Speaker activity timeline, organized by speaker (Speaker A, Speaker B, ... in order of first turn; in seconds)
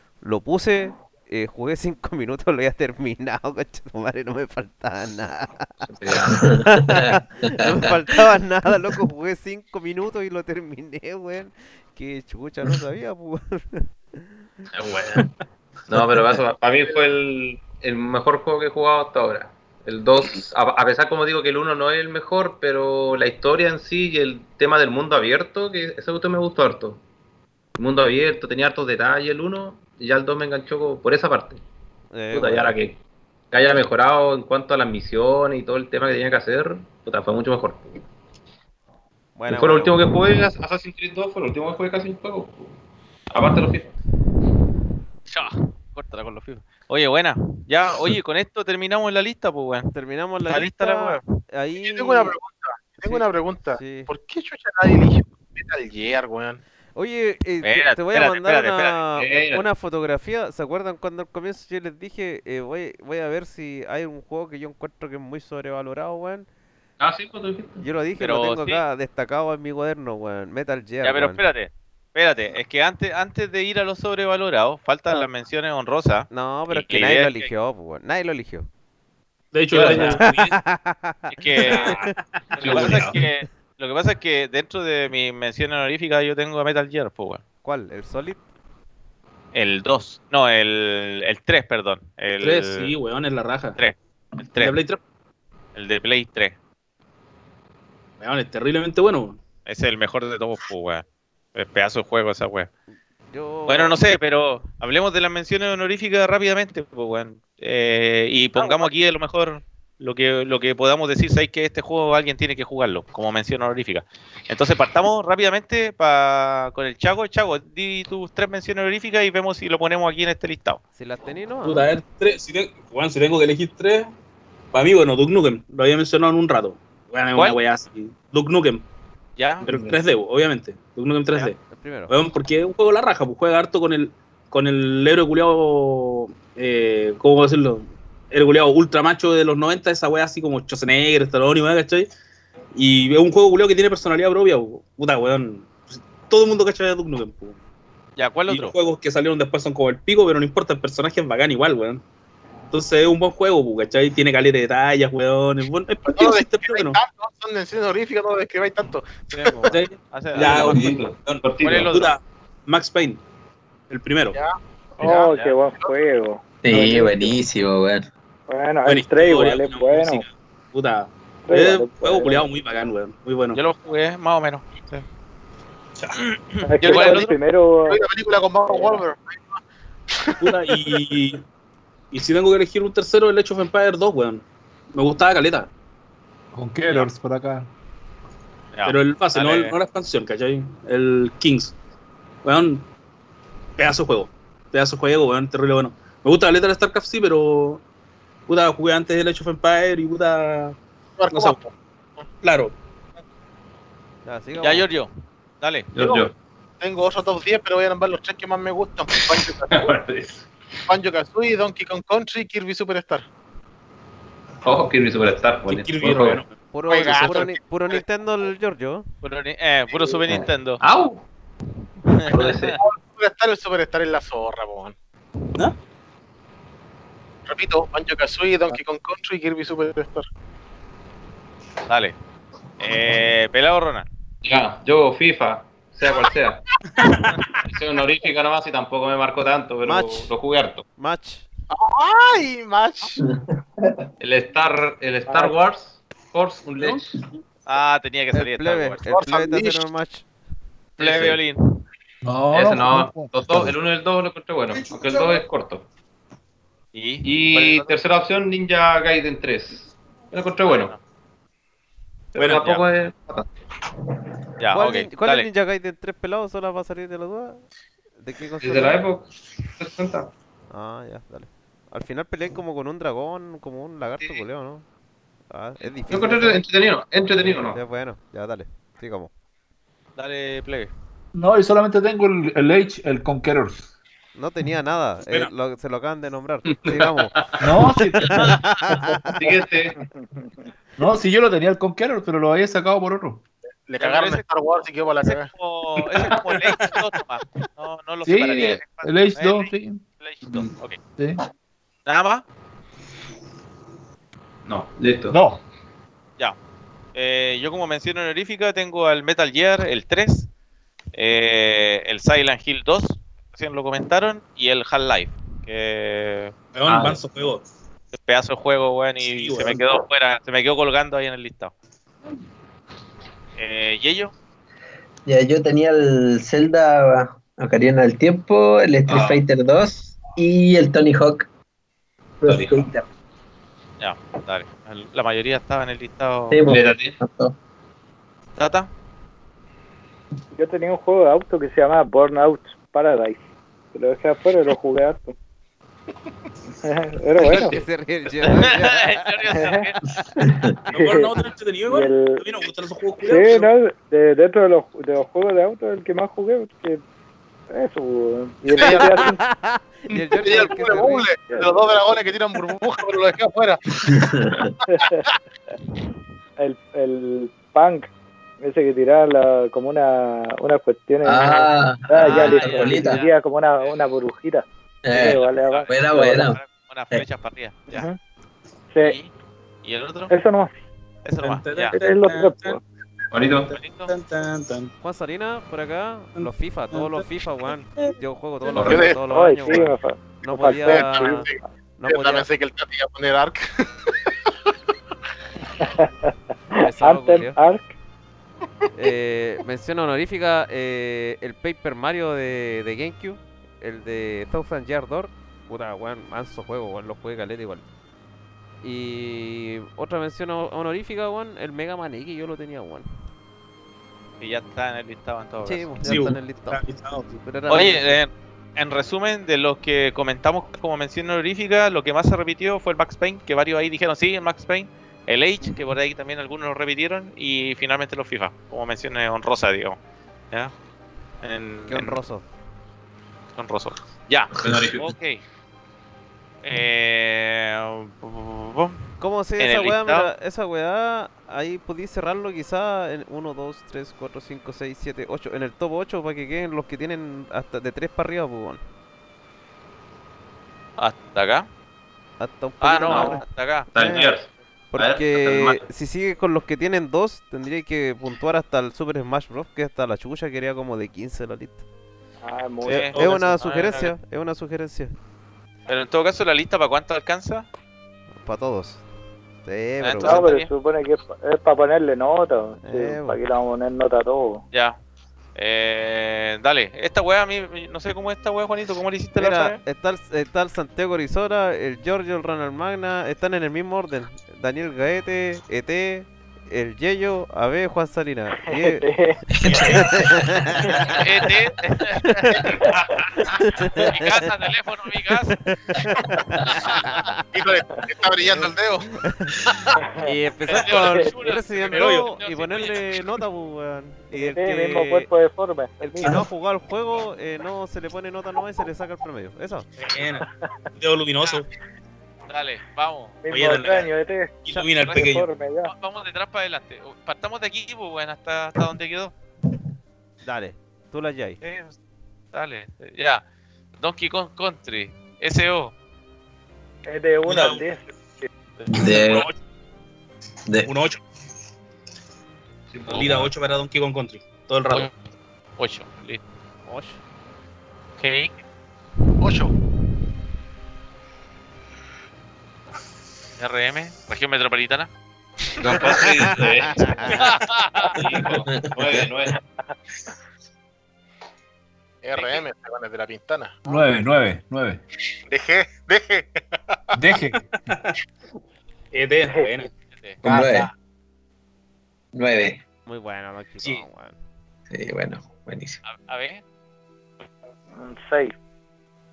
Speaker A: 0.2-5.9, 6.6-14.3, 32.1-32.8, 39.4-40.0, 49.9-52.3, 53.0-54.1, 56.9-66.5, 67.8-71.4, 76.3-78.7, 80.2-82.0, 82.7-83.1, 87.6-88.4, 103.3-104.0, 108.6-108.9, 121.0-121.9, 131.7-132.1, 204.2-204.9, 216.7-219.1, 239.8-240.3, 241.0-241.5, 248.3-250.2, 264.7-267.6, 268.2-269.0, 270.7-274.8, 275.5-276.6, 277.4-279.3, 284.4-287.3, 288.3-289.4, 347.4-349.6, 358.8-361.3, 385.0-391.4, 392.0-392.5, 396.7-397.6, 398.9-407.8, 408.8-413.1, 415.6-416.8, 417.4-418.2, 431.9-432.4, 439.2-448.8, 452.4-453.4, 453.9-454.3, 454.9-461.8, 462.9-465.1, 468.4-469.0, 469.6-470.5, 472.8-473.4, 479.4-489.1, 489.7-490.9, 492.2-492.8, 493.5-494.3, 495.7-497.4, 498.4-499.6, 500.2-505.3, 506.0-509.9, 520.4-521.6, 536.9-537.2, 546.4-547.4, 563.0-564.4
Speaker B: 5.8-6.5, 14.7-15.3, 15.9-27.0, 27.8-31.6, 32.3-33.0, 33.5-38.0, 39.5-42.8, 43.3-43.9, 59.1-59.6, 67.0-67.8, 79.7-80.2, 82.6-83.2, 160.3-162.0, 205.9-206.3, 209.2-210.5, 214.6-216.4, 220.3-221.2, 222.3-222.8, 234.4-236.6, 237.6-240.8, 244.2-247.2, 251.0-251.4, 252.5-255.8, 257.2-260.9, 262.3-263.5, 268.6-270.3, 276.1-277.8, 286.6-287.9, 289.3-289.9, 296.3-296.6, 300.4-300.7, 304.6-305.4, 316.9-317.2, 329.1-329.4, 332.4-332.9, 336.6-337.1, 383.3-383.7, 388.7-389.1, 434.6-435.1, 453.1-453.4, 453.9-455.8, 532.9-533.5, 545.8-547.4, 548.1-549.6
Speaker C: 6.2-7.9, 166.6-168.1, 325.2-331.5, 332.4-333.1, 336.5-337.6, 364.0-364.7, 371.2-373.2, 375.0-376.6, 489.6-490.4, 528.9-529.5, 560.4-560.9, 562.3-562.8, 564.9-566.0
Speaker D: 45.3-49.9, 50.5-51.3, 57.6-59.0, 68.2-68.8, 71.0-77.5, 79.7-80.2, 81.3-82.0, 82.6-87.4, 89.5-92.9, 93.8-94.8, 95.7-96.5, 99.7-101.0, 101.5-102.7, 103.7-120.8, 129.4-129.7, 148.2-148.8, 159.3-160.9, 161.6-162.1, 165.0-165.6, 173.5-175.0, 176.2-177.3, 188.7-189.7, 204.6-205.1, 205.6-205.9, 219.2-220.8, 222.1-222.6, 231.9-232.2, 232.8-234.1, 247.7-249.0, 251.0-251.8, 256.9-257.9, 260.6-261.0, 262.5-262.8, 264.6-265.5, 280.2-280.9, 294.0-301.0, 302.1-302.4, 307.1-310.5, 311.1-316.5, 318.1-321.7, 323.6-324.3, 334.0-336.6, 338.6-338.9, 348.6-350.0, 372.1-373.9, 375.6-378.1, 379.0-379.3, 379.8-380.3, 381.2-382.0, 383.7-384.1, 414.4-415.9, 417.7-430.0, 431.4-432.2, 433.6-435.4, 436.6-439.1, 439.6-440.3, 451.0-451.7, 452.8-453.9, 462.8-464.1, 465.9-467.6, 470.0-470.7, 474.7-475.0, 475.6-479.8, 491.1-492.8, 493.9-495.6, 500.7-503.0, 512.5-513.4, 515.0-515.3, 515.8-519.3, 521.6-521.9, 522.5-523.4, 524.0-525.9, 528.8-529.1, 535.8-536.4, 538.2-538.5, 543.6-545.1, 547.3-548.2, 552.3-552.6, 560.1-560.7, 566.0-566.6
Speaker E: 51.8-56.6, 156.1-159.6, 164.3-166.1, 177.0-177.3, 177.8-179.6, 180.1-180.9, 201.2-202.2, 206.0-206.2, 206.8-209.9, 210.9-213.2, 216.8-218.0, 222.7-224.9, 227.5-230.2, 241.7-243.2, 249.1-249.8, 293.9-295.5, 358.7-359.3, 360.2-363.9, 388.8-389.2, 390.8-394.1, 497.5-499.1, 539.4-539.7, 552.2-553.9, 555.5-557.0
Speaker F: 79.5-80.5, 92.4-93.8, 94.6-95.0, 98.2-99.4, 121.6-124.1, 124.7-128.8, 129.6-131.6, 132.1-142.1, 142.7-147.6, 148.5-152.0, 152.7-157.0, 159.6-163.2, 163.9-164.4, 168.8-173.6, 180.4-181.4, 182.1-185.7, 188.8-191.7, 192.4-192.8, 193.8-197.8, 198.5-200.8, 201.3-201.6, 202.4-202.8, 215.7-216.5, 237.1-237.4, 262.4-262.6, 316.7-317.6, 319.2-319.8, 350.9-353.7, 381.4-382.8, 384.0-384.9, 386.4-387.2, 416.0-417.4, 463.1-463.4, 501.9-502.2, 510.0-511.7, 513.5-514.1, 514.6-515.5, 527.4-527.8, 529.0-529.5, 530.8-531.2, 533.1-535.1, 557.7-558.1, 559.1-559.9
Speaker G: 165.0-167.3, 168.5-170.2, 171.5-172.4, 176.7-178.0, 178.7-179.0, 245.3-245.5, 290.0-290.5, 340.6-343.4, 343.9-345.3, 346.8-347.8, 349.5-349.9, 350.9-352.4, 353.2-357.0, 357.7-359.4, 361.5-361.8, 364.9-365.2, 366.6-368.1, 368.6-376.5, 377.9-378.2, 380.3-380.7, 381.9-382.8, 389.3-391.5, 395.8-396.1, 396.8-397.9, 453.1-453.4, 462.4-463.2, 470.2-474.6, 488.7-489.4, 490.9-491.1, 492.7-492.9, 500.0-500.3, 500.9-501.3, 504.3-506.4, 513.4-514.5, 515.1-515.9, 527.0-528.5, 559.5-559.8, 568.0-568.5
Speaker H: 186.5-187.7, 252.2-253.7, 281.3-283.9, 287.6-288.6, 291.0-293.4, 298.2-300.0, 305.3-305.6, 553.9-555.0, 557.1-557.6